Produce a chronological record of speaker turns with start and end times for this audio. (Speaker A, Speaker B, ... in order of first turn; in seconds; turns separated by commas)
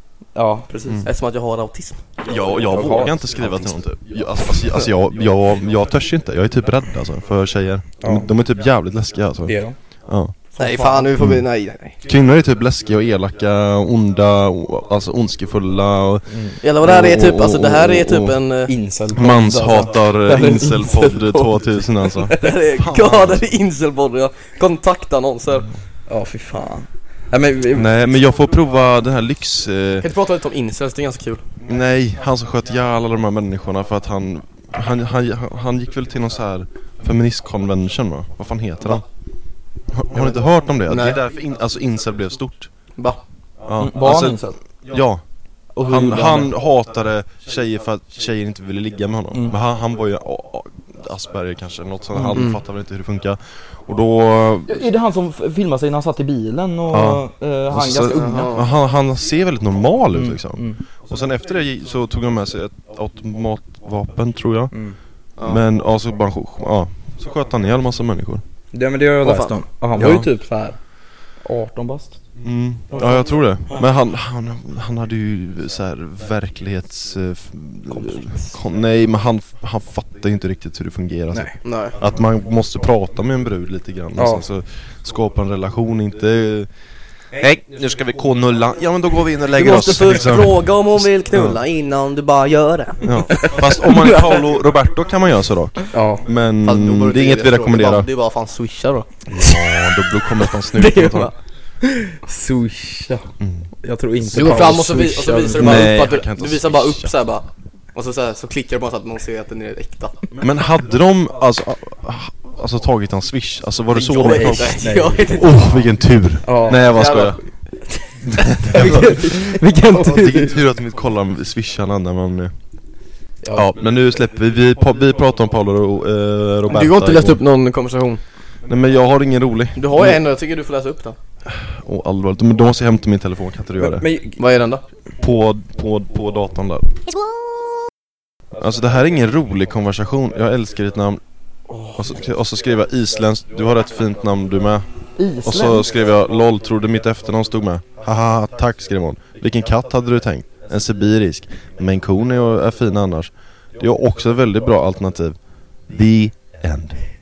Speaker A: 0.3-1.0, Speaker B: 1.0-2.0, Speaker C: 2.2-10.4, Speaker A: 2.6-3.7, Speaker A: 8.0-8.3, Speaker A: 9.4-9.8, Speaker A: 10.6-11.1, Speaker B: 10.6-12.0, Speaker C: 11.2-11.4, Speaker C: 12.0-18.4, Speaker A: 16.3-16.6, Speaker B: 16.6-18.7, Speaker A: 18.7-22.5, Speaker C: 19.1-23.4, Speaker B: 22.4-25.7, Speaker A: 26.1-27.9, Speaker C: 27.7-30.1, Speaker B: 30.0-31.4, Speaker C: 31.6-39.0, Speaker C: 39.9-42.7, Speaker B: 40.9-41.2, Speaker C: 43.6-45.2, Speaker A: 43.8-44.6, Speaker A: 45.7-46.5, Speaker C: 45.8-54.8, Speaker A: 49.3-49.5, Speaker A: 52.1-52.5, Speaker B: 52.3-52.6, Speaker A: 54.7-58.6, Speaker C: 56.9-64.7, Speaker B: 58.1-58.6, Speaker A: 60.1-60.8, Speaker A: 64.7-65.0, Speaker C: 65.4-68.4, Speaker A: 68.7-70.8, Speaker B: 69.2-69.6, Speaker C: 70.0-70.3, Speaker A: 71.4-72.2, Speaker C: 72.4-86.7, Speaker A: 77.9-78.5, Speaker B: 81.6-82.0, Speaker A: 84.2-84.4, Speaker C: 87.3-91.6, Speaker B: 89.5-94.4, Speaker C: 93.0-98.1, Speaker A: 95.9-96.2, Speaker B: 96.6-99.6, Speaker C: 99.3-101.3, Speaker B: 100.7-101.3, Speaker A: 102.2-103.3, Speaker C: 103.4-103.7, Speaker A: 103.8-106.0, Speaker B: 104.3-110.2, Speaker C: 105.5-107.1, Speaker C: 110.4-117.4, Speaker B: 114.0-115.8, Speaker A: 114.0-115.4, Speaker A: 116.4-117.3, Speaker B: 116.9-117.4, Speaker C: 118.3-122.5, Speaker B: 118.6-120.6, Speaker A: 118.6-119.6, Speaker A: 123.4-123.7, Speaker C: 123.5-127.4, Speaker B: 126.7-128.2, Speaker C: 128.7-130.2, Speaker B: 129.8-131.2, Speaker C: 131.4-134.1, Speaker A: 133.8-134.4, Speaker B: 134.4-134.8, Speaker C: 135.2-136.9, Speaker C: 138.6-141.2, Speaker A: 141.7-142.2, Speaker C: 141.9-144.9, Speaker A: 145.2-145.9, Speaker C: 145.4-157.0